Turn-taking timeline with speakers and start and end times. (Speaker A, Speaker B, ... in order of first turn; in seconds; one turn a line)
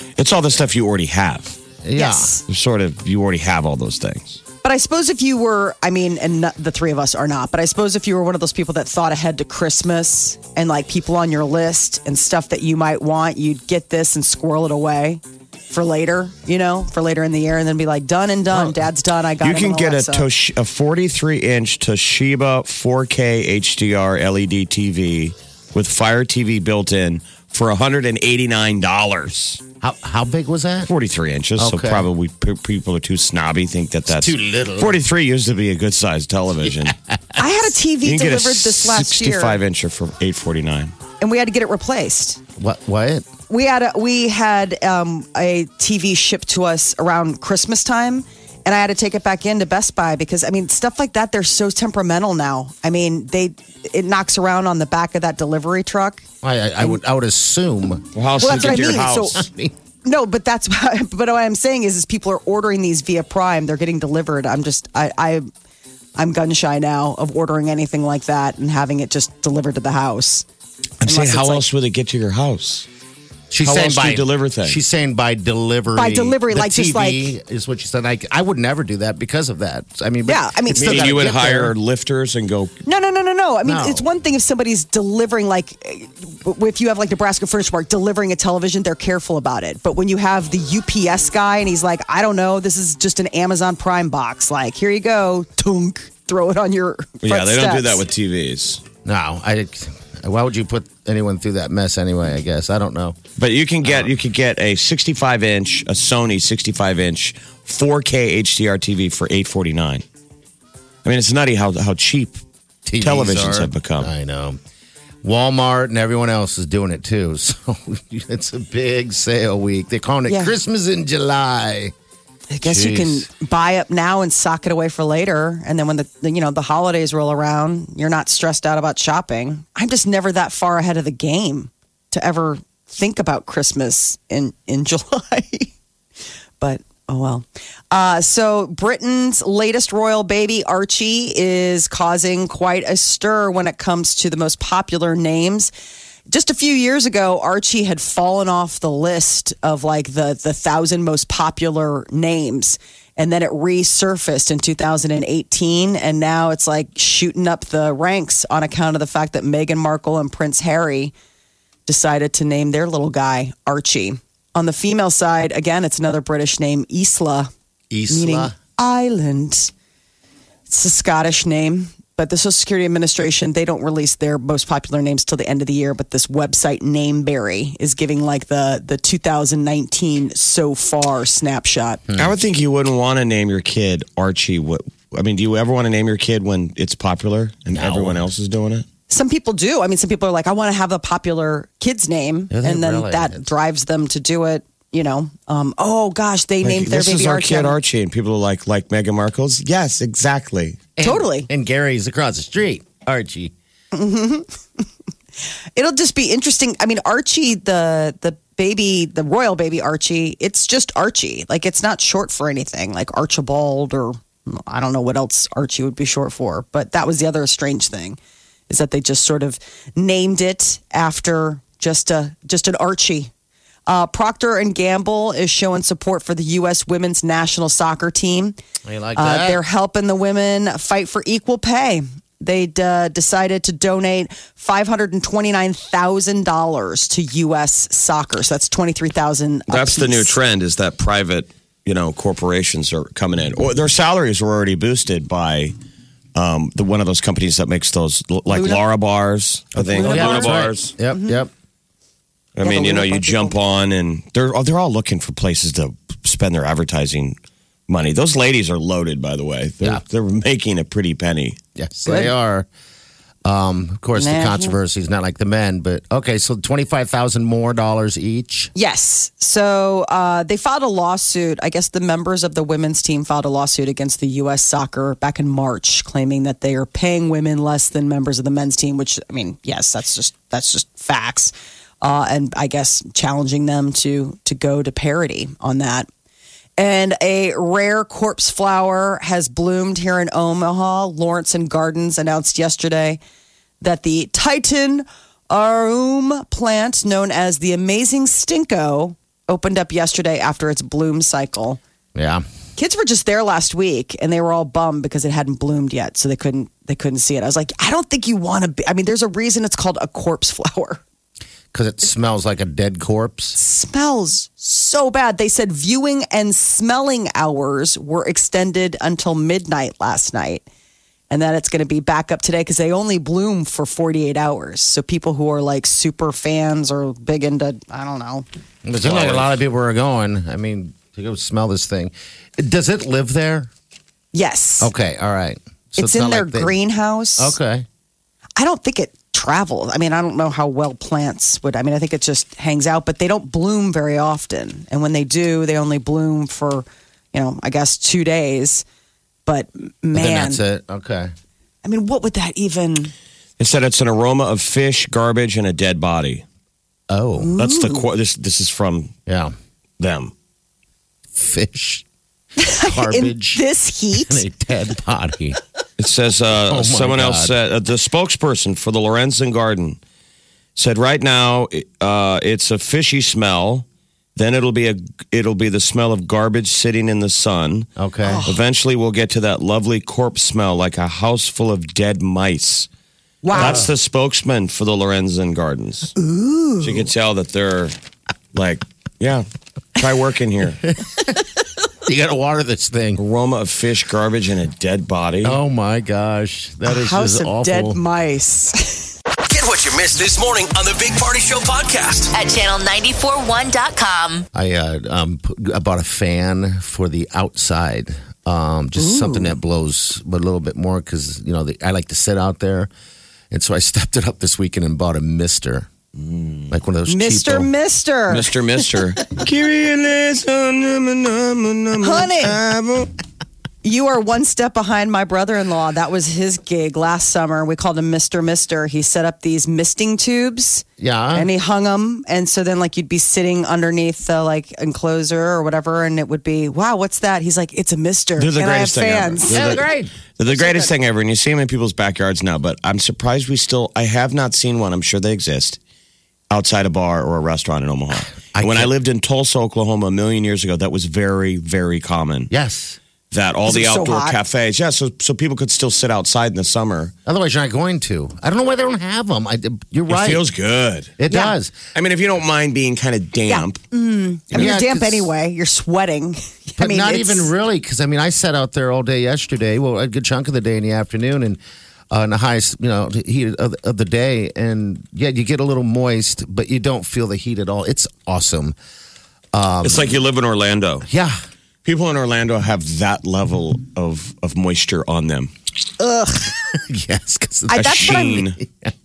Speaker A: 0.2-1.6
Speaker B: 1.8-2.4
Speaker C: 1.9-2.4
Speaker A: 2.5-4.4
Speaker C: 4.6-20.3
Speaker A: 19.4-29.6
Speaker B: 29.8-30.9
Speaker A: 30.9-36.9
Speaker B: 31.6-32.1
Speaker B: 34.1-35.0
Speaker B: 36.8-37.4
Speaker C: 37.4-39.6
Speaker A: 38.0-40.9
Speaker C: 41.2-42.4
Speaker B: 42.6-43.3
Speaker C: 43.5-56.2
Speaker B: 56.4-59.7
Speaker A: 58.1-59.4
Speaker C: 58.4-59.4
Speaker C: 60.0-65.5
Speaker C: 66.2-70.5
Speaker A: 71.0-72.9
Speaker C: 71.0-71.6
Speaker B: 73.5-81.7
Speaker A: 73.6-74.8
Speaker C: 75.9-77.3
Speaker C: 80.2-81.2
Speaker A: 80.7-82.7
Speaker C: 82.8-98.0
Speaker B: 83.6-84.0
Speaker A: 97.2-98.8
Speaker B: 99.0-103.2
Speaker A: 103.4-110.0
Speaker A: 111.0-112.4
Speaker B: 112.8-114.6
Speaker A: 113.0-114.1
Speaker B: 115.2-121.9
Speaker C: 120.3-120.5
Speaker C: 122.5-135.7
Speaker B: 122.6-123.2
Speaker C: 136.6-145.7
Speaker C: 146.3-161.1
Speaker C: 161.8-167.5
Speaker B: 167.9-168.5
Speaker C: 168.1-169.7
Speaker C: 170.7-182.0
Speaker B: 182.1-182.3
Speaker A: 182.2-188.8
Speaker B: 187.7-188.2
Speaker C: 189.1-197.8
Speaker B: 192.5-193.5
Speaker A: 196.6-200.8
Speaker B: 201.0-203.5
Speaker C: 201.0-201.5
Speaker C: 203.9-204.5
Speaker C: 205.8-218.2
Speaker C: 218.7-223.3
Speaker C: 223.9-228.6
Speaker B: 228.8-229.6
Speaker C: 229.2-240.3
Speaker A: 239.7-245.7
Speaker A: 246.3-250.9
Speaker C: 248.5-248.8
Speaker B: 249.8-251.5
Speaker C: 249.9-251.4
Speaker A: 252.6-257.4
Speaker C: 252.6-253.6
Speaker A: 257.9-261.6
Speaker B: 261.8-262.7
Speaker C: 262.1-262.3
Speaker B: 263.4-268.7
Speaker C: 264.1-264.8
Speaker C: 268.7-286.1
Speaker C: 286.8-293.2
Speaker C: 293.8-301.8
Speaker B: 302.1-302.4
Speaker C: 302.8-311.0
Speaker B: 311.7-313.6
Speaker C: 313.6-320.6
Speaker C: 321.3-328.4
Speaker B: 328.8-333.7
Speaker A: 329.0-329.5
Speaker C: 334.3-334.9
Speaker B: 334.8-336.7
Speaker C: 336.0-337.6
Speaker B: 337.4-337.9
Speaker C: 338.6-348.8
Speaker C: 349.4-350.6
Speaker B: 350.1-351.3
Speaker C: 351.8-353.1
Speaker A: 353.6-356.4
Speaker B: 357.1-357.5
Speaker C: 357.4-358.0
Speaker A: 357.6-359.1
Speaker B: 359.3-359.5
Speaker A: 360.0-360.3
Speaker B: 361.3-362.0
Speaker C: 362.6-364.4
Speaker B: 362.8-363.6
Speaker B: 364.1-365.6
Speaker A: 366.0-370.0
Speaker B: 366.6-367.5
Speaker A: 370.8-373.8
Speaker A: 374.4-377.9
Speaker B: 378.0-378.4
Speaker C: 378.2-378.6
Speaker A: 378.4-382.9
Speaker C: 383.4-383.9
Speaker A: 383.5-386.1
Speaker B: 383.5-383.9
Speaker C: 386.2-387.1
Speaker A: 386.8-387.9
Speaker A: 388.5-389.4
Speaker A: 390.0-390.8
Speaker B: 392.0-393.2
Speaker A: 393.2-395.6
Speaker B: 395.4-398.0
Speaker C: 396.9-399.1
Speaker D: 399.4-402.3
Speaker E: 402.3-404.4
Speaker B: 404.5-412.9
Speaker C: 409.0-409.6
Speaker B: 413.5-415.9
Speaker A: 416.2-416.7
Speaker B: 416.7-417.7
Speaker C: 417.1-418.8
Speaker A: 418.3-423.1
Speaker C: 422.0-422.5
Speaker C: 423.8-439.8
Speaker B: 431.0-431.5
Speaker A: 438.4-445.8
Speaker B: 439.5-440.1
Speaker A: 446.5-452.5
Speaker B: 448.5-448.9
Speaker B: 452.5-453.0
Speaker A: 453.3-457.1
Speaker C: 453.6-454.4
Speaker B: 457.2-460.4
Speaker A: 460.1-461.2
Speaker B: 461.2-461.8
Speaker C: 461.3-461.5
Speaker A: 461.9-463.8
Speaker C: 463.5-467.5
Speaker B: 464.5-465.3
Speaker B: 466.8-471.6
Speaker B: 472.1-478.8
Speaker B: 479.5-480.2
Speaker A: 479.8-481.1
Speaker B: 481.1-481.4
Speaker A: 481.8-485.5
Speaker C: 486.0-486.5
Speaker B: 486.7-488.9
Speaker C: 487.7-488.5
Speaker A: 487.7-488.6